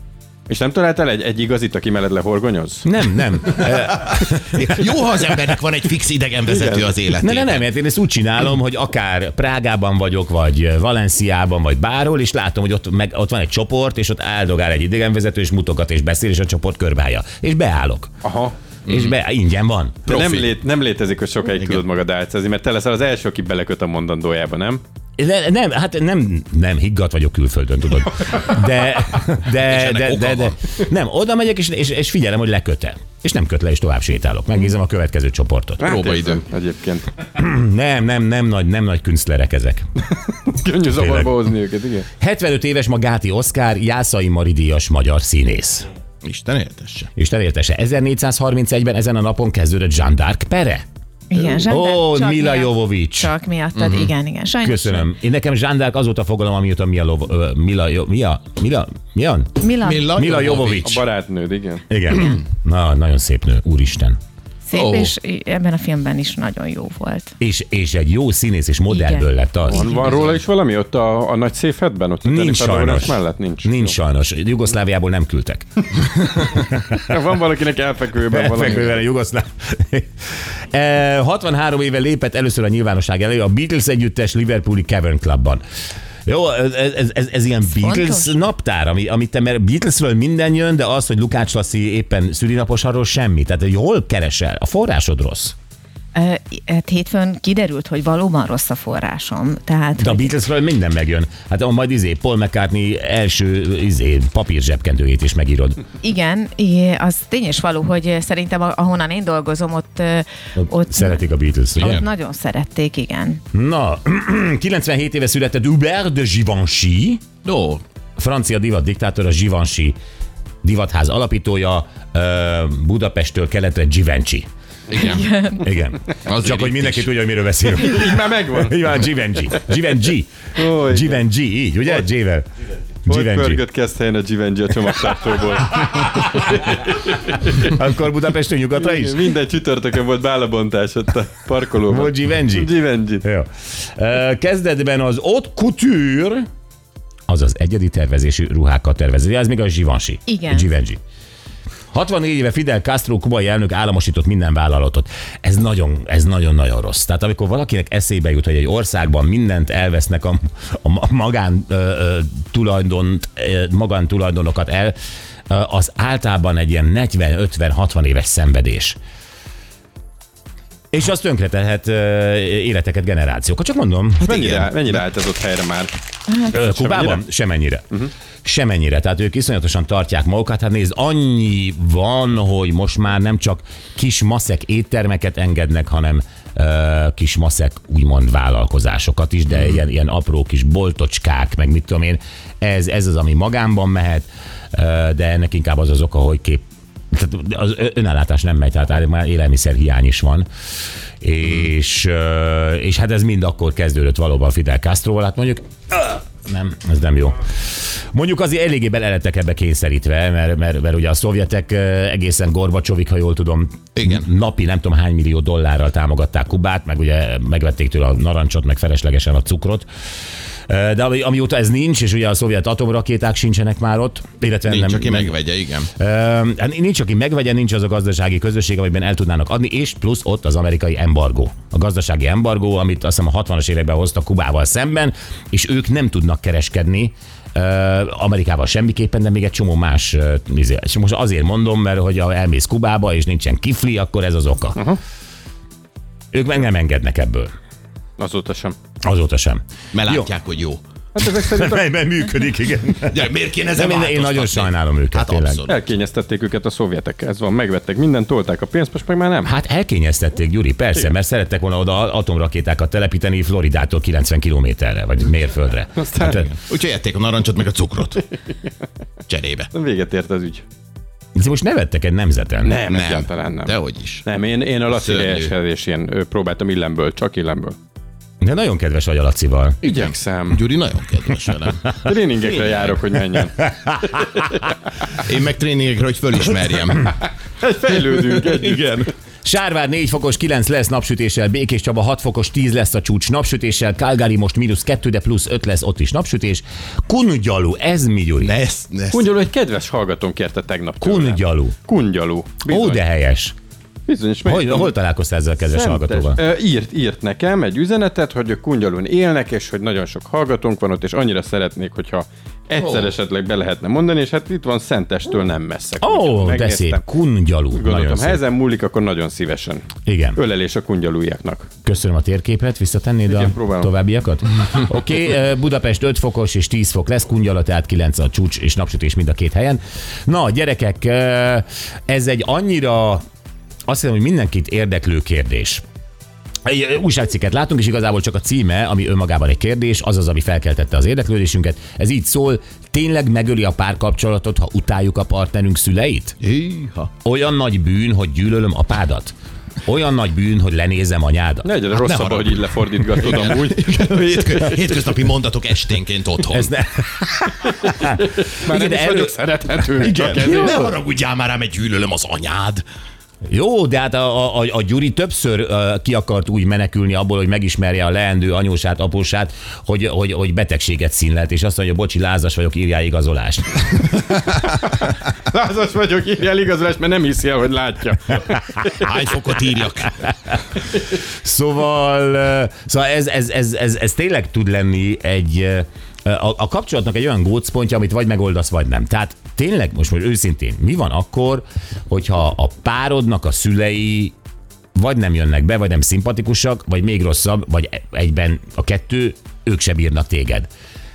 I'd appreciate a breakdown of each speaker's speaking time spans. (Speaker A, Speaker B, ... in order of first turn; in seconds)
Speaker A: 0.5-2.9, 6.5-7.0, 18.2-18.5, 20.1-24.8, 35.8-37.1, 40.3-42.1, 60.8-61.8, 69.7-74.0, 77.0-79.0, 127.7-128.9, 130.6-131.2, 133.1-137.7, 138.8-143.2, 174.2-175.9, 176.5-177.2, 248.2-248.7, 251.1-251.9, 255.7-259.5, 266.0-266.4, 269.7-270.6, 272.6-273.7, 274.2-277.8, 279.8-280.6, 281.9-284.7, 287.6-289.1, 299.1-303.0, 304.1-304.9, 305.7-317.0, 317.7-321.7, 323.3-323.9, 351.6-355.1, 357.6-360.9, 374.3-379.1
Speaker B: 2.8-4.8, 7.2-18.1, 18.9-20.2, 25.2-35.9, 37.3-39.9, 40.9-41.3, 42.2-45.9, 47.2-50.8, 51.6-53.3, 54.6-61.0, 61.9-64.2, 67.4-70.1, 72.2-77.1, 78.3-85.6, 86.2-95.5, 100.0-105.8, 110.6-112.0, 113.5-117.2, 118.2-120.0, 120.6-124.5, 125.5-132.5, 133.1-133.6, 135.9-136.5, 137.6-139.3, 141.9-146.5, 147.3-151.0, 151.9-164.9, 165.5-169.0, 170.9-174.6, 176.5-177.8, 178.4-200.5, 201.2-219.9, 220.7-225.4, 225.9-244.8, 246.3-247.5, 249.0-250.3, 251.2-255.6, 259.4-266.5, 271.3-272.8, 278.4-279.8, 283.6-284.2, 289.4-298.5, 301.0-301.8, 302.6-303.5, 304.4-306.4, 316.0-318.4, 320.1-320.4, 321.8-333.2, 333.9-335.8, 336.6-346.3, 347.2-349.3, 349.8-351.7, 356.5-359.4, 360.1-360.9, 363.4-374.1, 381.2-394.3, 394.9-400.7
Speaker C: 3.7-7.6, 18.9-19.1, 20.1-20.5, 29.5-30.6, 35.8-36.4, 46.2-47.1, 53.8-54.1, 59.8-61.0, 64.7-65.1, 70.0-70.3, 111.8-112.0, 117.4-117.8, 124.9-125.3, 126.2-127.1, 174.3-174.7, 213.9-214.2, 224.7-225.9, 249.9-250.8, 253.0-255.8, 266.3-268.2, 269.3-269.7, 272.9-274.2, 274.9-275.5, 279.9-282.9, 285.2-287.1, 288.3-289.1, 298.4-299.3, 346.4-347.1, 351.9-356.7, 360.0-362.8, 379.0-380.3
Speaker D: 51.3-55.1, 59.6-60.1, 64.7-67.3, 68.9-69.2, 87.7-88.3, 96.1-100.3, 106.0-111.2, 111.8-113.4, 124.9-125.6, 150.3-150.7